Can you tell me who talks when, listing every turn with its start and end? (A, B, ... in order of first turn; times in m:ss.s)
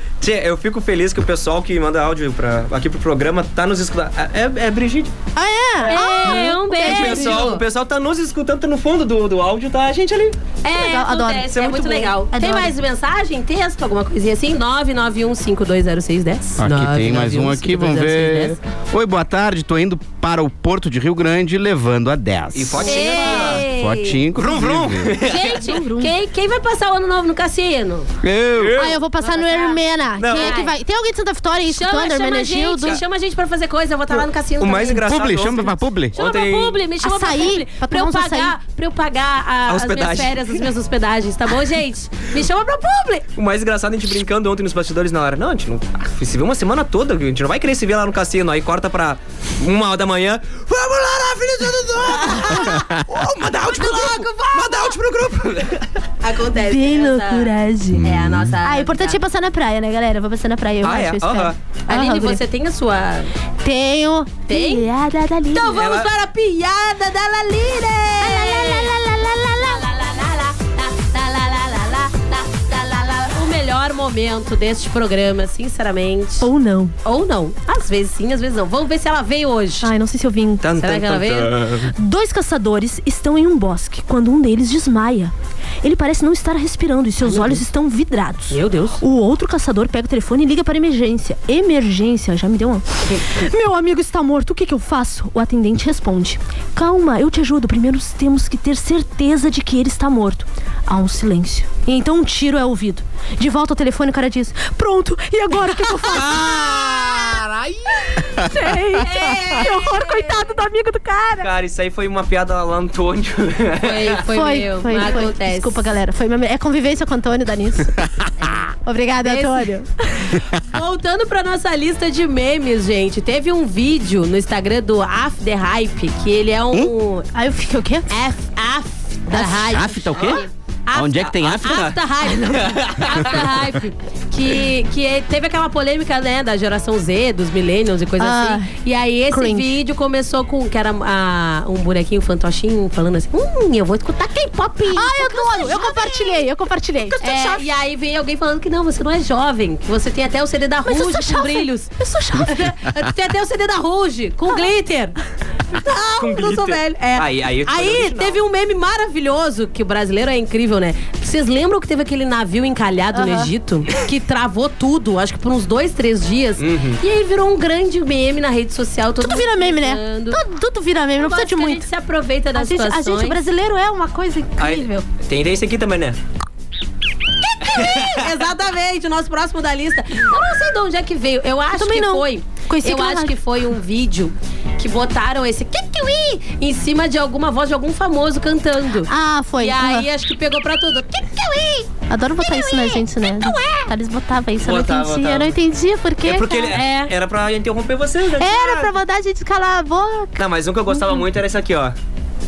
0:00.2-0:05.1 A
0:05.4-0:07.6 B
0:05.8-0:07.6 C
0:06.3-0:10.4 A
0:10.6-0:18.6 C
0:10.7-0:11.5 B
0:11.5-0:12.2 A
0:12.3-0:12.7 B
0:16.6-0:25.2 D
0:22.5-0:23.6 A
0:22.8-0:24.2 C
0:24.3-0:25.6 A
0:25.2-0:28.1 C
0:25.4-0:26.1 B
0:28.2-0:28.8 D
0:28.5-0:29.0 A
0:28.8-0:33.0 B
0:28.8-0:30.7 C
0:30.2-0:30.6 A
0:31.7-0:35.1 C
0:34.1-0:36.8 A
0:35.0-0:36.2 D
0:36.1-0:43.3 C
0:37.0-0:38.5 B
0:39.7-0:40.6 A
0:43.4-0:55.9 A
0:52.2-0:52.6 C
0:53.7-0:55.0 C
0:56.2-0:57.5 C
0:56.6-0:58.0 B
0:57.9-0:58.6 D
0:58.0-0:59.2 C
0:58.6-1:02.4 B
1:00.8-1:01.6 A
1:01.9-1:03.3 C
1:03.6-1:05.9 B
1:04.5-1:04.9 C
1:05.5-1:09.0 C
1:05.8-1:06.1 A
1:08.2-1:09.8 B
1:09.6-1:16.5 C
1:16.4-1:17.0 B
1:17.0-1:19.9 C
1:19.8-1:20.7 B
1:20.6-1:21.9 A
1:20.8-1:21.6 C
1:21.9-1:47.4 B
1:27.2-1:27.6 C
1:28.5-1:29.0 C
1:46.3-1:46.9 A
1:48.1-1:51.5 B
1:48.9-1:50.4 C
1:51.4-1:54.2 A
1:53.8-1:55.8 C
1:54.3-1:58.1 B
1:58.7-2:00.4 B
1:59.2-1:59.7 C
2:00.6-2:07.3 C
2:07.3-2:08.1 B
2:08.1-2:26.4 C
2:09.3-2:09.8 B
2:09.4-2:10.4 D
2:10.9-2:11.9 D
2:11.4-2:13.6 A
2:18.2-2:18.7 B
2:19.3-2:19.7 B
2:24.9-2:27.6 B
2:27.2-2:35.2 C
2:30.8-2:32.7 B
2:35.7-2:50.4 C
2:36.2-2:38.4 A
2:43.1-2:43.5 B
2:46.6-2:47.0 A
2:49.2-2:51.9 B
2:51.2-2:53.4 C
2:52.6-2:55.1 B
2:54.6-2:56.2 A
2:57.6-3:13.9 C
2:57.8-2:58.2 A
3:01.7-3:03.3 B
3:09.1-3:10.1 B
3:12.1-3:16.8 B
3:14.6-3:15.6 A
3:16.2-3:18.9 A
3:16.7-3:17.1 C
3:18.4-3:21.3 B
3:20.4-3:22.0 A